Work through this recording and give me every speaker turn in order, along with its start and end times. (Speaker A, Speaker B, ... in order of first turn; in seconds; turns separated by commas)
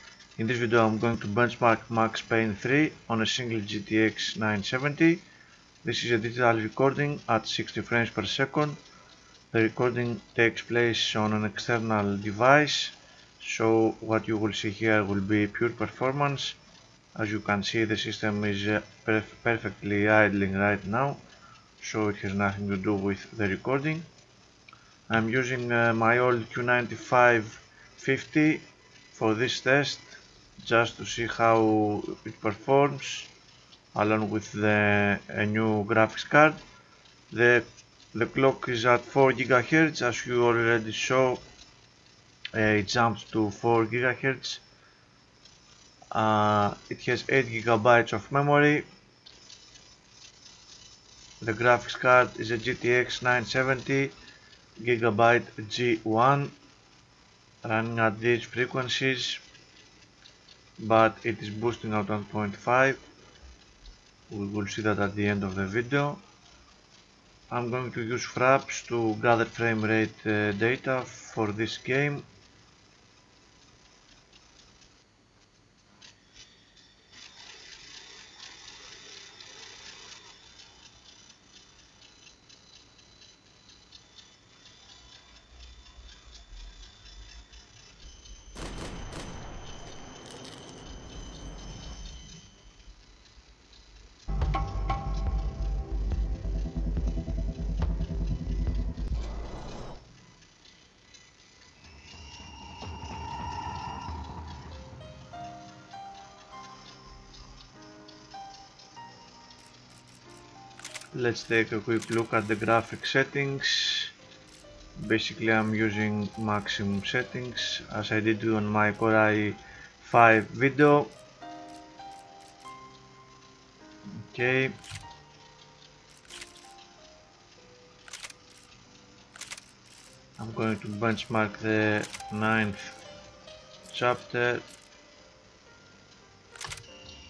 Speaker A: 0.4-5.2, Speaker A: 5.8-8.8, Speaker A: 9.5-16.6, Speaker A: 17.1-21.2, Speaker A: 21.8-24.1, Speaker A: 25.1-33.3, Speaker A: 33.9-36.6, Speaker A: 37.3-41.4, Speaker A: 42.5-44.6, Speaker A: 46.1-48.9, Speaker A: 51.4-54.1, Speaker A: 54.8-56.5, Speaker A: 57.6-59.4, Speaker A: 60.8-63.0, Speaker A: 64.3-66.2, Speaker A: 67.5-72.3, Speaker A: 111.1-114.1, Speaker A: 115.0-121.1, Speaker A: 124.1-124.8, Speaker A: 130.4-133.0, Speaker A: 133.9-134.6